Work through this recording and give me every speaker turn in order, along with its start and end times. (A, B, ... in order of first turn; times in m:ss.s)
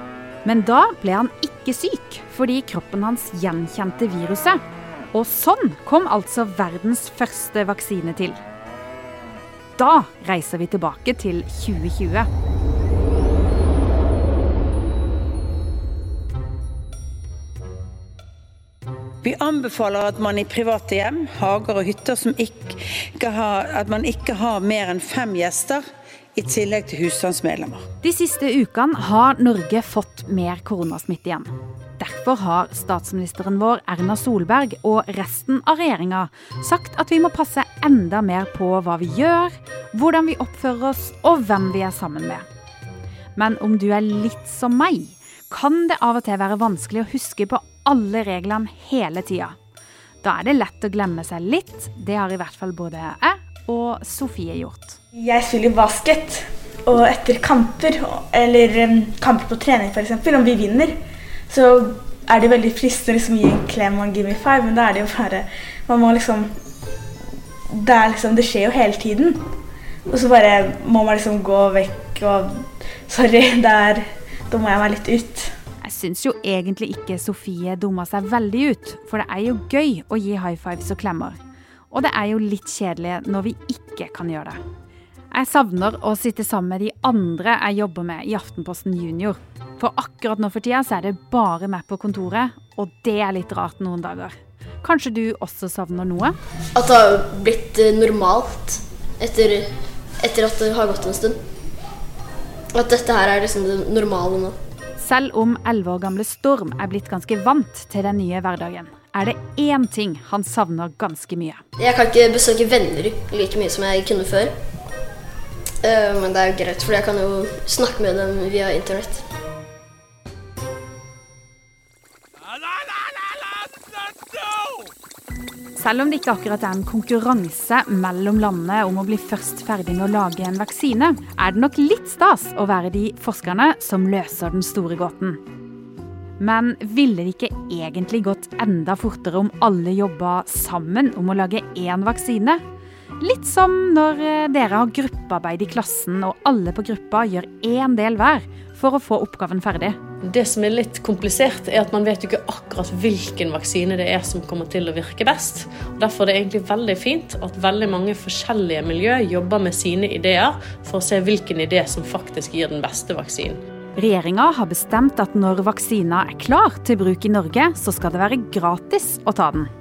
0:00.4-0:04.6 A
0:05.1-0:08.4 A
0:09.8-0:12.3 A
0:19.2-0:27.8 B
0:28.0-0:42.4 A
0:43.4-0:49.5 A
0:50.2-0:55.0 A
0:55.2-1:00.9 C
1:01.5-1:06.5 C
1:07.7-1:09.4 C
1:10.1-1:15.5 C
1:15.8-1:21.4 A
1:21.9-1:24.6 A
1:25.3-1:36.4 A
1:36.7-1:41.4 D
1:42.7-1:44.6 D
1:45.0-1:51.6 A
1:51.8-1:54.5 D
1:55.8-1:59.2 D
2:05.8-2:15.4 A
2:16.4-2:22.6 A
2:23.2-2:30.0 A
2:30.2-2:43.6 E
2:44.0-2:49.7 A